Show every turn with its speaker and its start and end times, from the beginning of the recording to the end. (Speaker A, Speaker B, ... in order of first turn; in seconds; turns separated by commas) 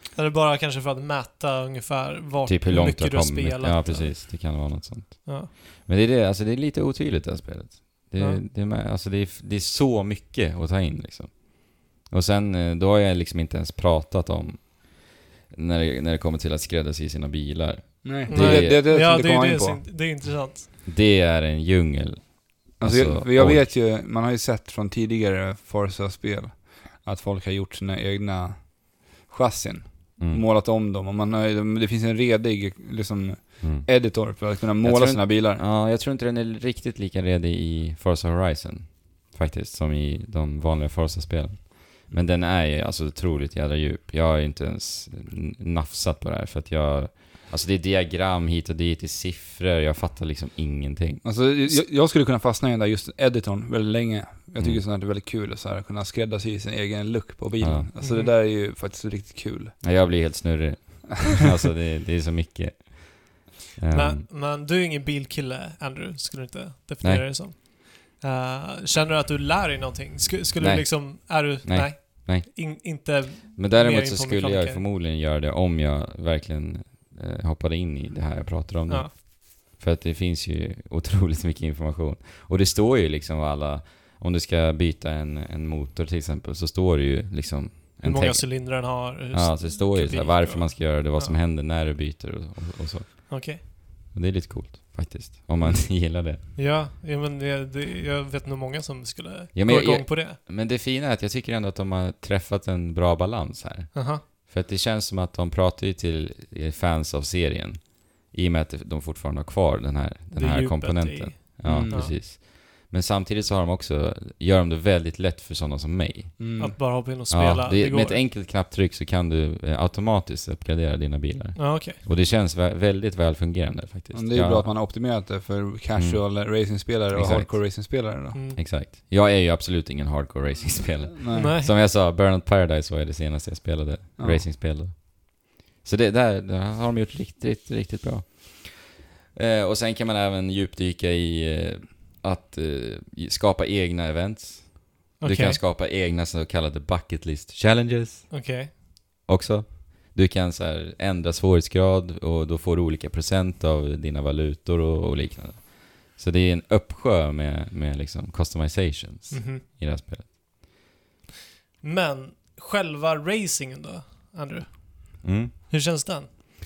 Speaker A: 0.1-4.6, Speaker B: 2.5-18.9, Speaker A: 5.2-5.5, Speaker C: 18.0-19.8, Speaker A: 18.3-20.7, Speaker B: 20.8-23.7, Speaker C: 22.8-35.6, Speaker B: 30.2-30.4, Speaker B: 33.6-51.7, Speaker C: 51.2-59.7, Speaker B: 57.6-57.9, Speaker A: 58.0-58.3, Speaker B: 59.8-64.2, Speaker A: 63.9-74.8, Speaker B: 67.0-67.3, Speaker B: 70.6-96.4, Speaker A: 88.0-91.4, Speaker A: 93.3-93.6, Speaker A: 96.5-100.4, Speaker B: 99.5-124.7, Speaker A: 103.9-104.2, Speaker A: 110.3-112.1, Speaker C: 111.6-112.1, Speaker C: 116.4-116.8, Speaker A: 116.6-118.2, Speaker A: 121.5-122.0, Speaker C: 124.1-128.4, Speaker B: 126.0-128.0, Speaker A: 128.3-128.6, Speaker B: 128.6-160.4, Speaker C: 131.1-131.5, Speaker A: 131.3-131.7, Speaker C: 134.2-134.4, Speaker A: 145.2-145.6, Speaker A: 148.3-148.7, Speaker A: 159.3-159.6, Speaker A: 161.8-166.3, Speaker B: 165.2-165.5